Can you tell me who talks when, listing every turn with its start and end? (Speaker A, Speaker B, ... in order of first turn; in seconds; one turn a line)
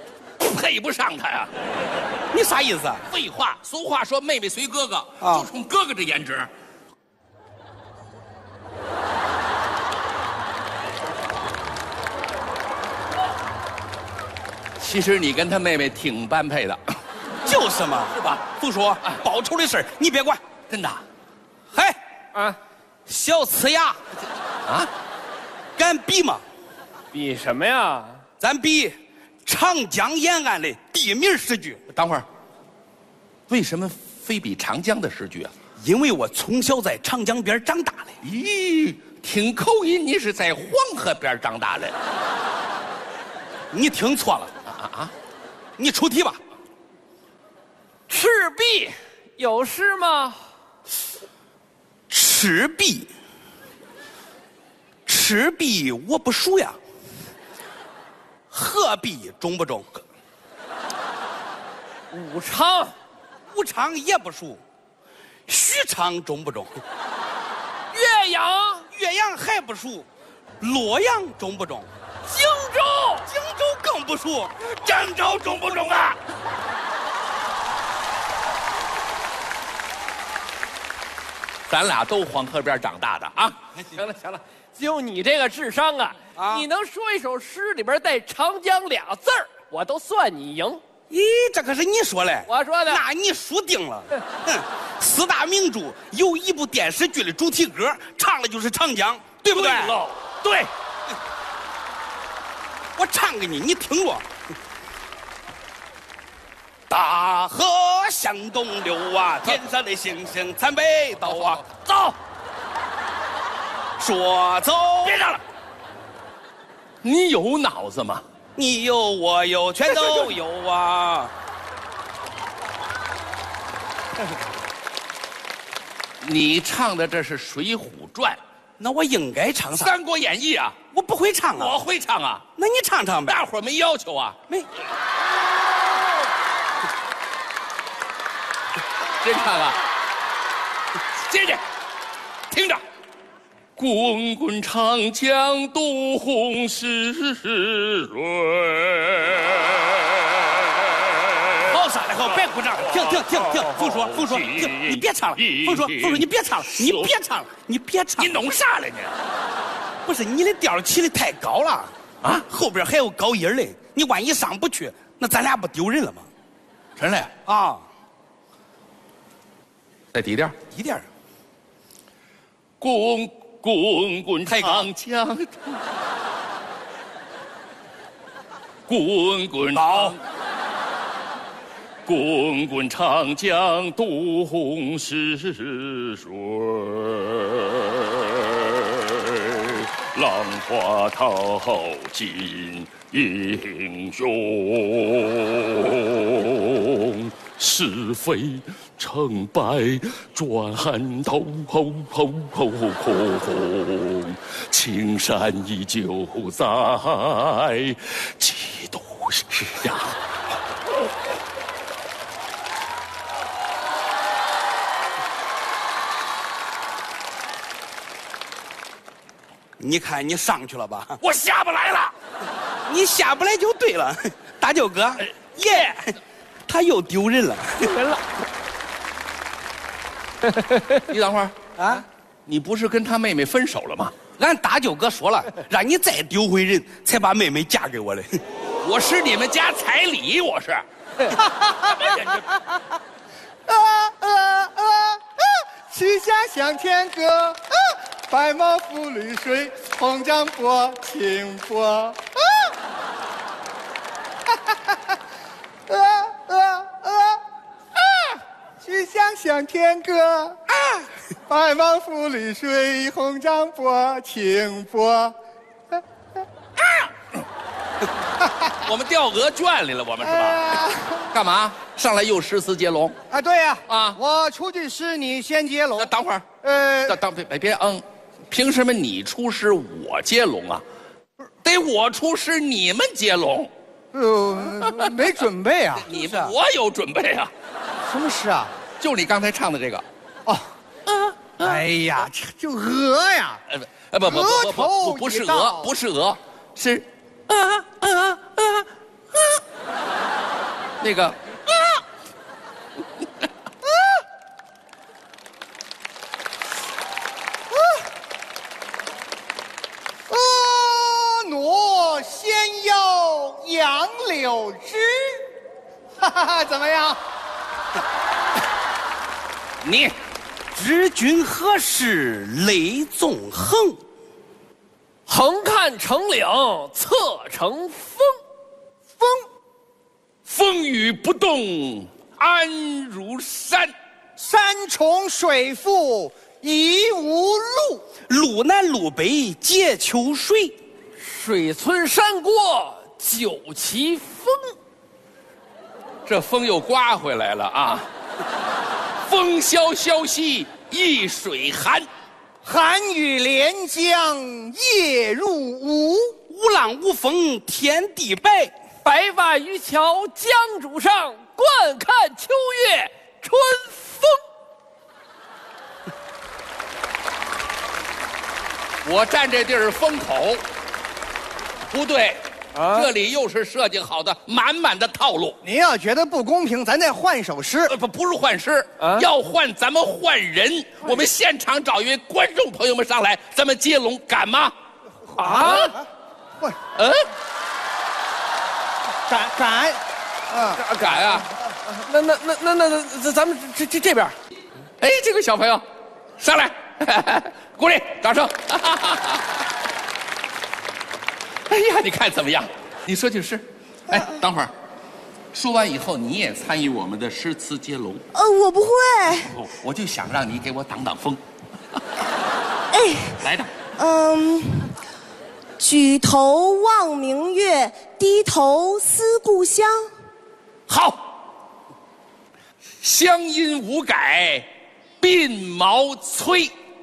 Speaker A: 0.4-1.5
Speaker B: 2.3-3.0
Speaker A: 3.1-6.5
Speaker B: 5.2-5.5
Speaker A: 14.8-17.0
Speaker B: 17.4-20.4
Speaker A: 18.1-18.4
Speaker A: 20.7-21.0
Speaker B: 21.7-22.0
Speaker B: 23.1-24.0
Speaker B: 25.8-26.4
Speaker C: 27.1-28.2
Speaker B: 28.4-28.9
Speaker B: 29.4-31.8
Speaker A: 31.9-32.2
Speaker A: 33.5-35.5
Speaker B: 35.8-38.1
Speaker A: 38.2-42.0
Speaker B: 43.7-44.5
Speaker A: 44.7-45.1
Speaker B: 45.8-46.4
Speaker C: 48.1-50.4
Speaker B: 52.1-53.1
Speaker B: 55.0-56.8
Speaker B: 58.5-60.0
Speaker C: 62.1-62.9
Speaker B: 63.5-64.6
Speaker B: 65.5-66.8
Speaker C: 67.9-68.8
Speaker B: 68.9-70.1
Speaker B: 70.6-71.9
Speaker C: 72.2-73.2
Speaker B: 73.3-75.9
Speaker A: 74.8-76.2
Speaker A: 81.7-83.6
Speaker C: 83.9-90.8
Speaker B: 86.4-86.6
Speaker B: 91.1-100.0
Speaker C: 92.5-93.0
Speaker A: 99.5-100.7
Speaker B: 103.0-104.3
Speaker B: 106.9-111.6
Speaker A: 111.2-112.1
Speaker B: 114.0-115.3
Speaker A: 115.0-115.4
Speaker A: 117.0-118.2
Speaker B: 118.5-121.3
Speaker A: 126.2-128.4
Speaker B: 128.8-129.9
Speaker A: 129.8-130.7
Speaker B: 130.9-131.8
Speaker A: 131.5-132.4
Speaker B: 132.6-133.4
Speaker A: 133.3-134.4
Speaker A: 139.2-139.8
Speaker A: 141.2-141.6
Speaker A: 142.5-142.8
Speaker A: 143.8-149.5
Speaker B: 151.6-158.5
Speaker A: 152.9-157.1
Speaker A: 158.2-159.2
Speaker B: 160.0-161.9
Speaker B: 162.5-166.3
Speaker A: 167.0-167.3
Speaker B: 167.4-167.8
Speaker A: 170.1-170.5
Speaker B: 170.7-171.1
Speaker A: 172.8-175.8
Speaker B: 174.4-174.9
Speaker A: 178.9-180.2
Speaker B: 179.7-180.2
Speaker A: 182.1-210.2
Speaker B: 219.8-221.2
Speaker A: 221.2-222.1
Speaker B: 222.9-227.8
Speaker C: 227.8-228.2
Speaker A: 231.1-231.5
Speaker B: 231.8-232.0
Speaker A: 232.5-234.1
Speaker B: 234.4-238.4
Speaker A: 238.8-242.4
Speaker D: 243.7-252.6
Speaker D: 255.9-257.4
Speaker D: 258.8-260.6
Speaker D: 261.5-265.3
Speaker A: 268.8-270.8
Speaker D: 270.2-271.3
Speaker A: 271.3-273.1
Speaker D: 273.3-276.1
Speaker A: 273.9-274.2
Speaker A: 276.0-276.4
Speaker D: 276.6-277.2
Speaker A: 277.1-280.8
Speaker A: 281.6-283.7
Speaker D: 284.1-286.1
Speaker A: 286.0-287.5
Speaker B: 286.1-286.5
Speaker D: 288.1-288.7
Speaker A: 289.0-290.0
Speaker A: 291.1-291.8
Speaker D: 291.6-293.6
Speaker A: 293.7-299.6
Speaker D: 294.2-295.9
Speaker A: 301.0-301.4
Speaker D: 310.3-315.4
Speaker D: 316.2-317.2
Speaker A: 319.8-320.1
Speaker B: 320.7-324.0
Speaker C: 325.3-328.3
Speaker A: 330.5-333.9
Speaker D: 334.4-338.0
Speaker B: 338.3-340.8
Speaker C: 341.2-344.7
Speaker A: 346.2-348.1
Speaker A: 349.2-352.1
Speaker D: 352.6-356.4
Speaker B: 356.5-358.7
Speaker C: 359.0-364.3
Speaker A: 369.0-370.6
Speaker A: 371.9-375.6
Speaker C: 372.7-373.1
Speaker D: 375.6-377.9
Speaker A: 377.9-384.7
Speaker C: 379.0-379.2
Speaker D: 385.3-386.1
Speaker C: 385.4-385.9
Speaker A: 385.5-385.9
Speaker A: 386.9-387.2
Speaker D: 389.3-390.8
Speaker C: 390.8-394.4
Speaker A: 390.9-391.5
Speaker A: 395.0-395.8
Speaker A: 396.4-399.4
Speaker A: 401.7-404.7
Speaker A: 405.5-408.3
Speaker E: 408.3-409.5
Speaker A: 409.4-411.4
Speaker E: 412.9-413.4
Speaker A: 413.4-413.7
Speaker E: 414.0-415.0
Speaker E: 415.8-420.1
Speaker A: 420.9-421.2
Speaker A: 423.0-424.7
Speaker A: 425.2-426.7